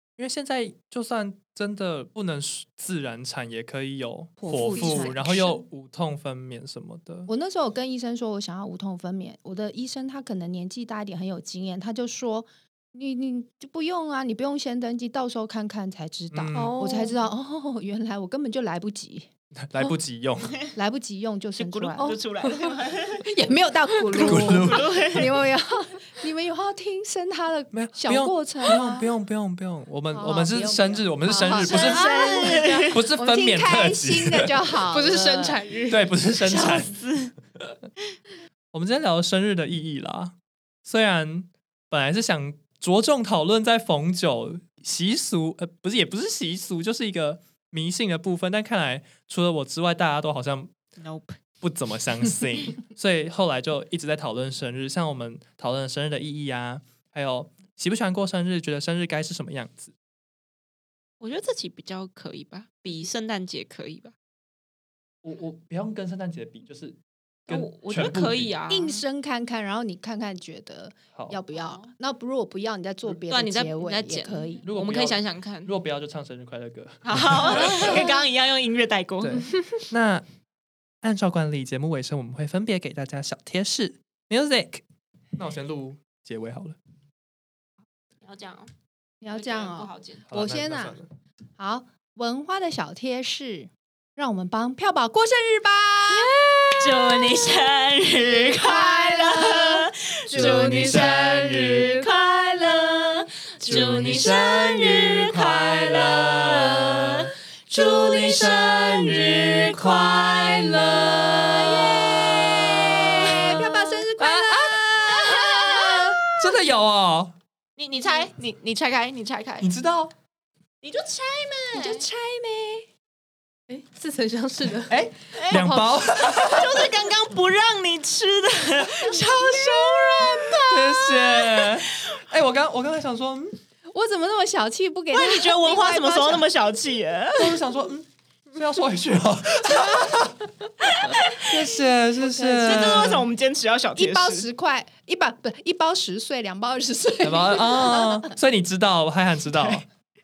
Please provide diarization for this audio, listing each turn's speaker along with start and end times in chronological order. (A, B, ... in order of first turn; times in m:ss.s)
0:00.2-0:07.3 A
0:04.4-0:05.6 B
0:04.7-0:05.0 C
0:07.3-0:19.3 B
0:16.3-0:16.8 A
0:16.5-0:17.2 C
0:19.6-0:20.6 A
0:20.7-0:22.2 B
0:21.6-0:23.3 D
0:23.2-0:29.1 B
0:24.1-0:25.3 D
0:24.2-0:25.0 A
0:27.7-0:32.1 A
0:30.1-0:35.6 B
0:31.6-0:33.0 D
0:32.9-0:34.5 A
0:34.9-0:36.0 C
0:35.9-0:37.0 A
0:36.4-0:37.3 D
0:38.7-0:50.7 A
0:51.0-0:51.4 D
0:51.6-0:59.9 A
1:01.2-1:04.1 D
1:05.2-1:08.5 A
1:07.5-1:09.0 D
1:08.7-1:14.6 B
1:11.5-1:11.9 D
1:13.3-1:15.7 D
1:14.6-1:18.0 A
1:17.0-1:19.5 D
1:19.2-1:20.2 A
1:21.0-1:24.8 A
1:25.4-1:26.8 A
1:28.2-1:28.7 D
1:29.2-1:31.0 B
1:29.3-1:30.2 D
1:30.3-1:31.1 A
1:31.6-1:37.6 B
1:36.8-1:46.3 D
1:38.5-1:42.4 B
1:40.3-1:42.0 A
1:43.6-1:51.8 A
1:43.7-1:44.3 B
1:47.0-1:53.5 D
1:51.4-1:56.4 B
1:54.2-1:54.8 A
1:55.1-1:56.1 D
1:56.4-1:57.3 A
1:57.8-1:59.7 D
1:59.6-2:00.1 A
2:00.8-2:02.0 D
2:01.7-2:02.9 B
2:03.7-2:05.0 C
2:04.9-2:06.9 A
2:05.3-2:12.1 D
2:05.5-2:06.4 C
2:09.1-2:10.2 B
2:10.6-2:13.6 A
2:13.9-2:16.5 B
2:15.1-2:17.6 D
2:17.4-2:20.5 A
2:20.8-2:21.6 D
2:21.5-2:23.3 A
2:22.2-2:23.2 B
2:22.6-2:24.5 D
2:24.0-2:28.3 B
2:27.2-2:29.8 A